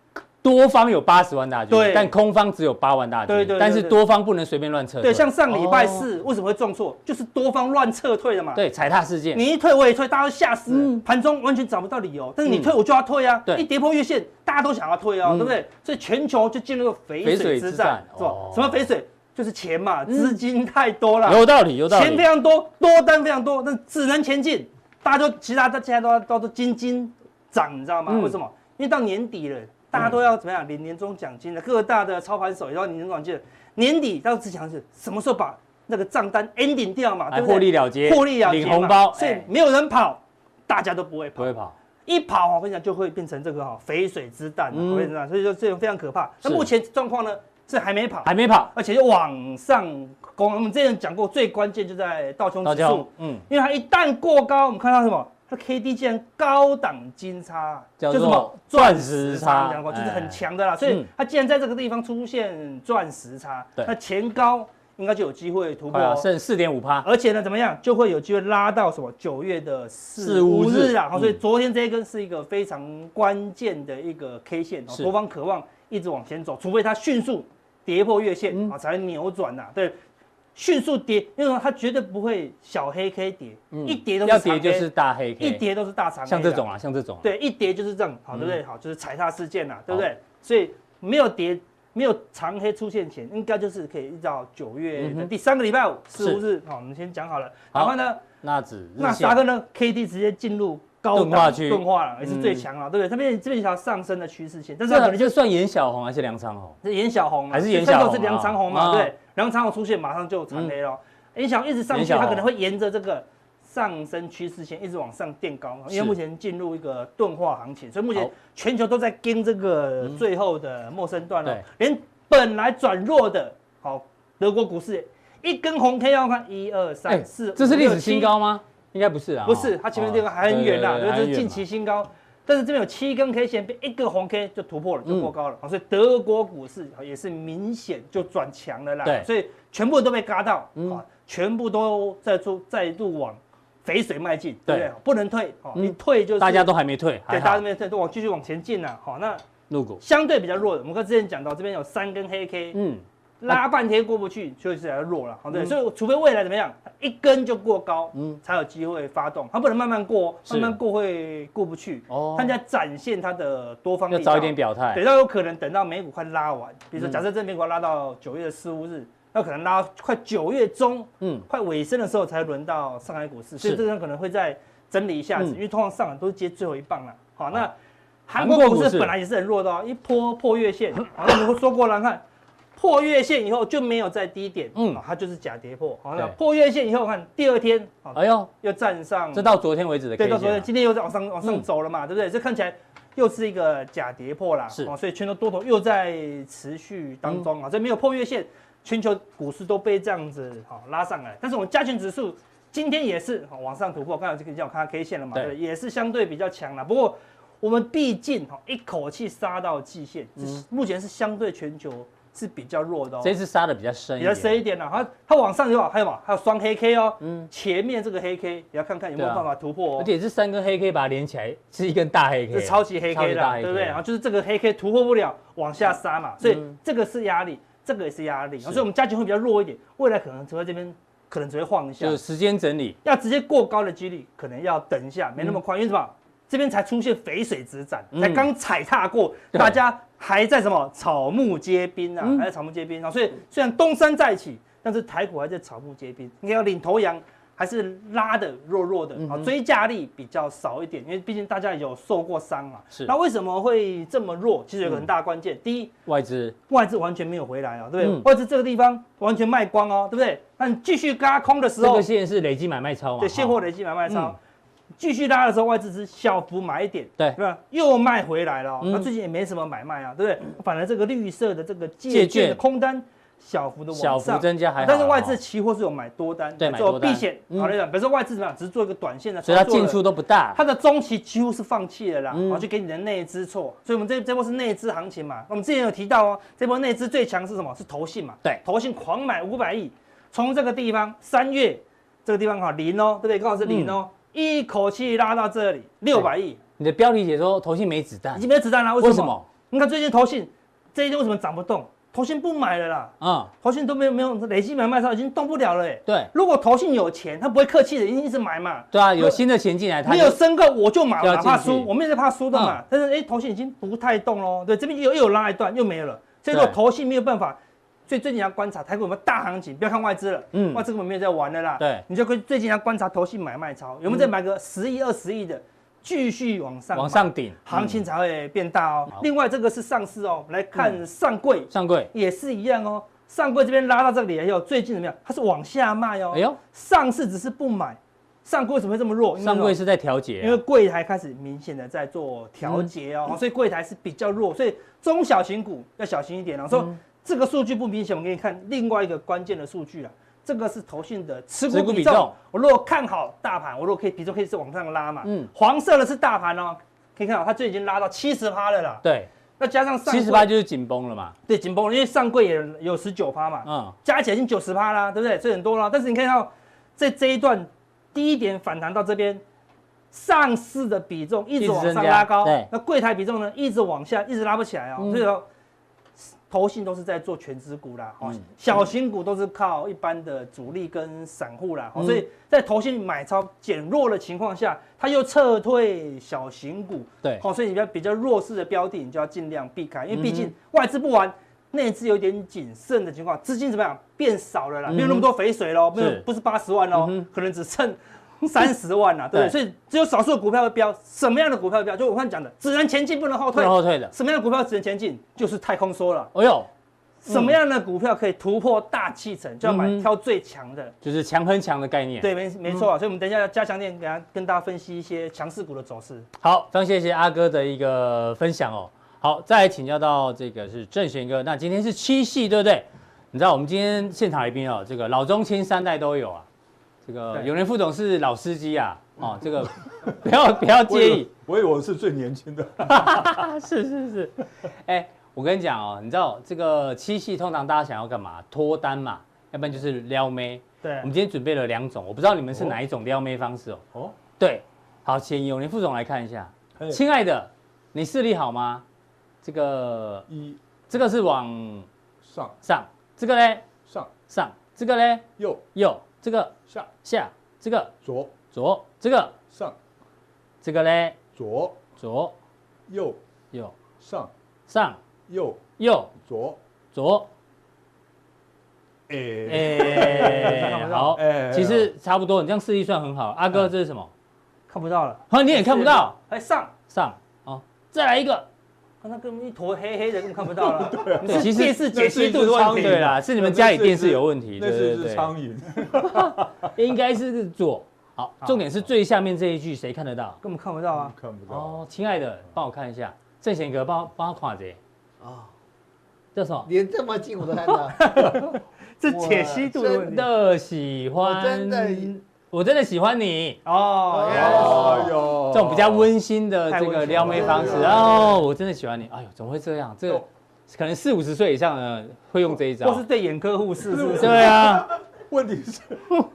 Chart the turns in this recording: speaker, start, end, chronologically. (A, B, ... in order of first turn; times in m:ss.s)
0:00.4-0:06.1 A
0:01.7-0:02.1 B
0:03.3-0:04.0 B
0:05.0-0:08.6 B
0:08.5-0:09.4 A
0:09.3-0:41.5 B
0:10.7-0:11.0 A
0:12.4-0:12.7 A
0:15.2-0:15.6 A
0:17.2-0:18.8 A
0:20.1-0:20.4 A
0:21.2-0:22.2 A
0:28.1-0:28.3 A
0:37.3-0:39.5 A
0:41.4-0:41.7 A
0:42.0-1:06.2 B
0:44.7-0:45.1 A
0:48.2-0:48.7 A
0:52.6-0:53.4 A
0:58.0-1:01.1 A
1:05.9-1:07.1 A
1:07.0-1:20.0 B
1:10.2-1:11.4 A
1:20.5-1:24.9 B
1:23.7-1:25.6 A
1:25.4-1:26.6 B
1:26.3-1:27.3 A
1:27.2-1:38.2 B
1:28.3-1:28.6 A
1:35.0-1:35.3 A
1:37.7-1:39.4 A
1:39.0-1:45.3 B
1:41.1-1:42.6 A
1:44.9-1:46.8 A
1:46.8-2:08.3 B
1:47.5-1:49.1 A
1:51.9-1:52.5 A
1:55.9-1:56.2 A
2:07.1-2:11.6 A
2:09.4-2:26.7 B
2:25.8-2:27.6 A
2:27.3-2:29.4 B
2:29.7-2:30.0 A
2:30.0-2:32.8 B
2:32.7-2:33.6 A
2:33.4-2:57.7 B
2:38.1-2:38.4 A
2:40.5-2:40.8 A
2:42.1-2:42.5 A
2:44.1-2:45.0 A
2:51.2-2:51.4 A
2:58.3-3:02.2 B
2:58.4-2:59.1 A
3:02.8-3:09.5 B
3:04.8-3:05.0 A
3:08.1-3:08.5 A
3:09.3-3:10.7 A
3:10.2-3:33.3 B
3:30.4-3:30.6 A
3:33.2-3:34.6 A
3:34.2-3:40.1 B
3:37.2-3:37.5 A
3:39.2-3:39.4 A
3:40.0-3:44.0 A
3:42.5-3:52.2 B
3:46.4-3:46.7 A
3:52.0-3:53.0 A
3:53.0-4:15.9 B
3:58.1-3:58.4 A
4:09.2-4:09.5 A
4:16.0-4:16.5 A
4:16.7-4:22.0 B
4:18.0-4:18.2 A
4:21.8-4:24.3 A
4:23.2-4:24.4 B
4:25.0-4:40.0 B
4:28.8-4:29.1 A
4:32.1-4:32.6 A
4:33.9-4:35.4 A
4:36.6-4:37.7 A
4:39.4-4:40.6 A
4:40.5-4:56.6 B
4:42.3-4:42.6 A
4:53.6-4:54.0 A
4:56.8-4:58.4 A
4:58.3-5:09.4 B
4:59.0-4:59.4 A
5:03.2-5:03.5 A
5:08.9-5:10.4 A
5:10.0-5:39.8 B
5:11.2-5:11.9 A
5:16.5-5:16.8 A
5:20.5-5:20.8 A
5:21.8-5:22.0 A
5:26.9-5:28.0 A
5:31.7-5:32.1 A
5:36.3-5:36.6 A
5:39.4-5:40.6 A
5:40.4-5:59.0 B
5:46.7-5:47.0 A
5:51.7-5:52.3 A
5:55.2-5:55.5 A
5:59.0-5:59.3 A
5:59.6-6:00.5 B
6:00.1-6:01.3 A
6:01.5-6:09.4 B
6:03.6-6:03.9 A
6:10.1-6:15.4 B
6:11.6-6:12.7 A
6:15.0-6:15.2 A
6:16.5-6:46.3 B
6:22.0-6:22.2 A
6:30.1-6:30.5 A
6:34.9-6:35.3 A
6:36.0-6:36.2 A
6:36.9-6:37.2 A
6:43.5-6:44.1 A
6:46.3-6:46.7 A
6:47.2-6:50.9 B
6:47.3-6:47.5 A
6:49.6-6:50.0 A
6:51.0-6:52.9 A
6:52.2-6:56.3 B
6:56.4-7:06.4 A
7:07.0-7:11.3 A
7:10.8-7:13.4 C
7:12.9-7:23.8 A
7:20.8-7:21.1 B
7:22.5-7:22.8 C
7:24.4-7:28.8 A
7:29.4-7:30.3 A
7:30.3-7:30.6 C
7:30.9-7:31.9 A
7:32.2-7:32.6 C
7:32.6-7:33.6 A
7:33.8-7:34.1 C
7:34.3-7:37.9 A
7:35.4-7:35.6 C
7:38.0-7:38.3 C
7:38.5-7:39.3 A
7:40.6-7:41.2 A
7:41.4-7:41.8 C
7:42.0-7:42.3 A
7:42.9-7:43.2 C
7:44.0-7:44.3 C
7:44.7-7:45.0 A
7:45.3-7:45.6 C
7:45.8-7:46.1 A
7:46.1-7:46.6 C
7:46.9-7:47.3 A
7:49.1-7:51.9 C
7:49.5-7:54.1 A
7:49.8-7:51.2 B
7:54.7-7:56.7 B
7:55.3-7:56.1 A
7:56.9-7:58.5 A
7:59.0-8:03.2 B
8:00.6-8:06.7 C
8:01.2-8:01.8 A
8:02.8-8:05.3 A
8:06.1-8:10.4 A
8:10.4-8:11.1 B
8:10.9-8:11.8 C
8:11.5-8:14.8 A
8:15.2-8:15.5 D
8:16.3-8:16.7 A
8:16.6-8:18.3 D
8:17.9-8:20.3 B
8:19.0-8:20.1 D
8:20.0-8:23.6 A
8:21.2-8:22.1 D
8:23.6-8:25.0 B
8:24.1-8:25.1 D
8:24.2-8:26.1 C
8:24.3-8:33.0 A
8:26.7-8:28.2 B
8:27.1-8:28.4 C
8:27.3-8:28.0 D
8:32.8-8:34.6 B
8:33.9-8:36.2 C
8:34.2-8:34.9 A